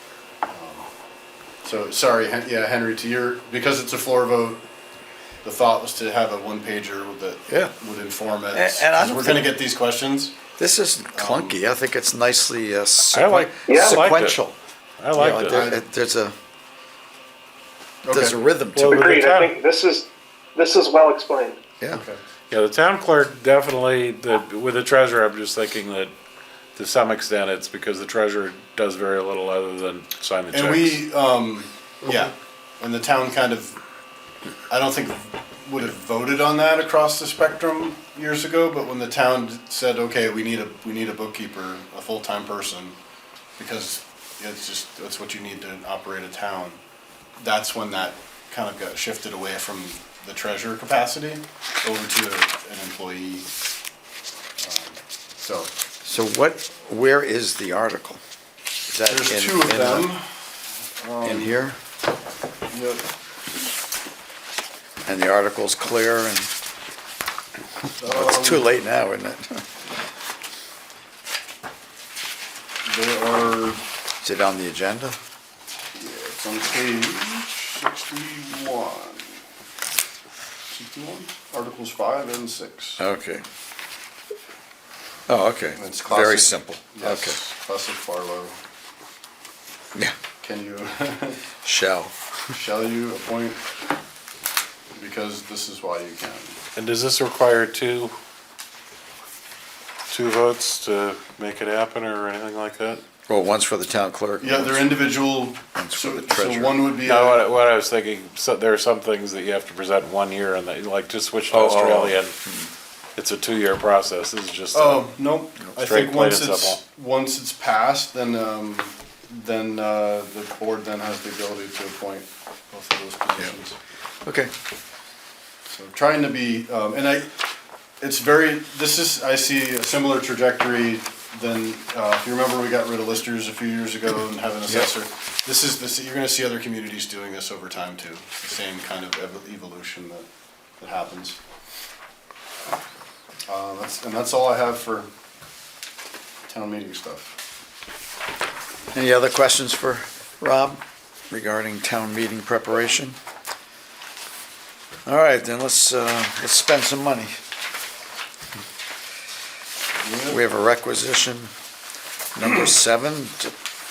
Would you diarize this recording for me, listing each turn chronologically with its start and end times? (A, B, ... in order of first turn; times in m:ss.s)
0:00.5-0:00.9 A
0:01.6-0:04.7 A
0:05.4-0:10.4 A
0:07.5-0:07.7 B
0:08.5-0:09.5 B
0:10.6-0:14.6 B
0:11.2-0:11.6 A
0:13.1-0:14.4 C
0:13.7-0:14.0 D
0:15.0-0:15.7 C
0:15.2-0:16.4 B
0:15.4-0:15.8 A
0:18.0-0:18.4 A
0:18.1-0:19.1 B
0:18.7-0:19.6 C
0:18.8-0:21.6 D
0:21.9-0:22.2 A
0:22.5-0:26.1 C
0:26.8-0:31.0 C
0:30.5-0:33.8 A
0:34.7-0:43.0 A
0:43.6-0:46.8 A
0:47.4-0:53.5 A
0:54.6-0:55.7 A
0:56.0-0:58.2 B
0:58.9-1:00.2 B
0:59.1-1:00.3 A
1:01.0-1:01.6 A
1:01.2-1:01.8 B
1:02.7-1:03.1 A
1:05.0-1:06.5 B
1:08.0-1:08.7 A
1:08.1-1:09.6 B
1:12.9-1:13.8 A
1:14.2-1:15.2 B
1:15.9-1:19.4 A
1:20.7-1:23.0 A
1:23.0-1:23.4 B
1:25.3-1:27.4 B
1:25.8-1:28.6 A
1:30.4-1:31.4 A
1:31.6-1:32.1 B
1:32.5-1:33.6 A
1:34.9-1:36.6 A
1:36.8-1:38.2 C
1:40.1-1:43.0 C
1:43.3-1:47.0 B
1:44.4-1:47.4 A
1:47.0-1:52.4 C
1:51.5-1:52.7 B
1:53.2-1:55.2 C
1:54.7-2:03.8 A
1:55.7-1:56.8 C
2:04.2-2:04.5 B
2:05.7-2:07.3 A
2:08.0-2:20.3 A
2:20.8-2:21.4 A
2:23.5-2:25.1 A
2:26.5-2:27.4 A
2:28.9-2:33.2 B
2:35.1-2:37.3 B
2:40.0-2:40.4 A
2:40.3-2:41.5 B
2:42.4-2:43.5 B